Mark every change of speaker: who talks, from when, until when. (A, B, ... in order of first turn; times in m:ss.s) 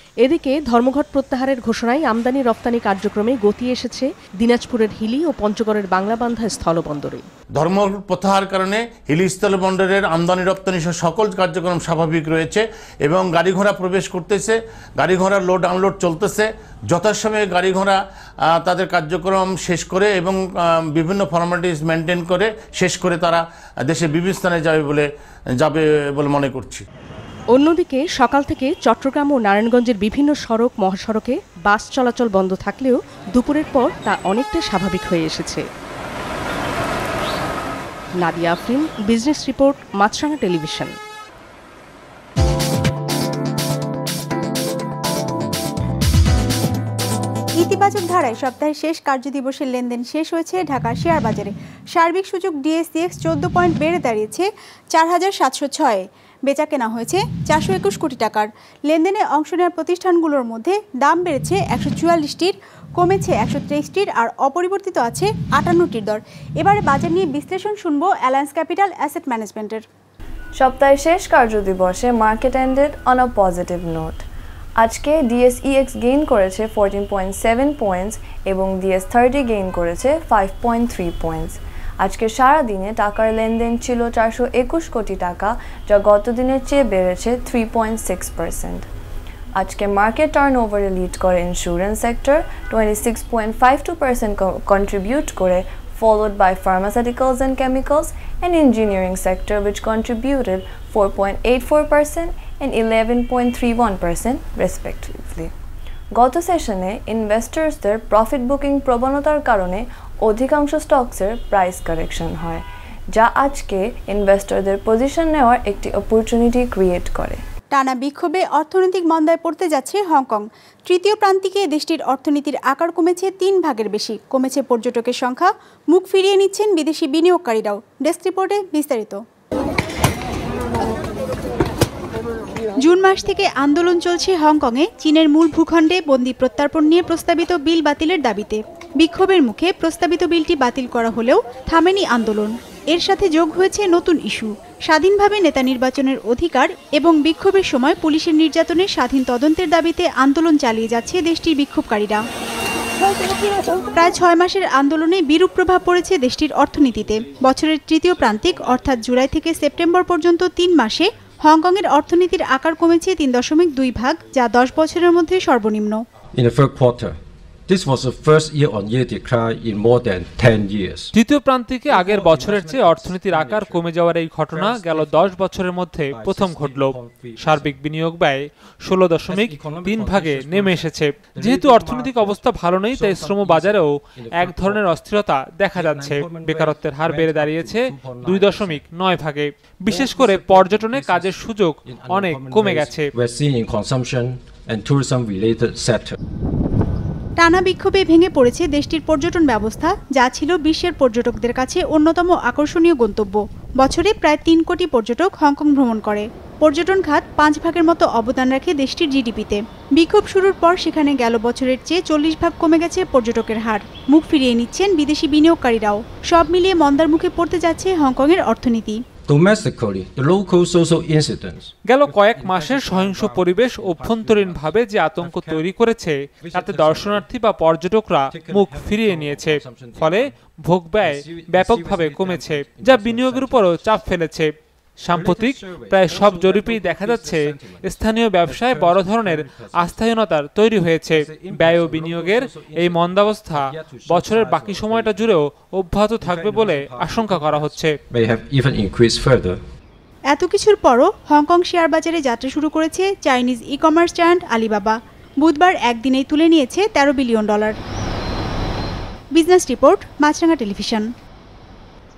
0:00.2-0:07.3 A
0:07.6-0:18.0 B
0:18.5-0:25.1 B
0:25.6-0:26.9 B
0:27.5-0:35.6 A
0:38.2-0:40.9 A
0:47.6-1:09.8 C
1:10.6-1:14.2 D
1:14.8-1:28.9 D
1:29.6-1:45.5 D
1:46.2-1:57.4 D
1:57.7-2:09.2 C
2:12.8-2:32.2 C
2:33.8-2:46.0 C
2:46.3-2:51.1 E
2:51.1-3:13.1 F
2:51.9-2:53.8 E
2:54.5-2:55.4 E
2:56.1-2:57.8 E
2:59.3-3:04.9 E
3:05.7-3:08.9 E
3:09.8-3:16.2 E
3:17.4-3:39.0 C
3:39.3-3:45.8 E
3:41.8-4:08.0 F
3:46.4-3:47.3 E
3:48.3-3:50.4 E
3:51.0-3:53.8 E
3:55.1-4:00.3 E
4:01.1-4:05.3 E
4:06.2-4:09.6 E
4:10.3-4:17.7 C
4:19.4-4:21.0 C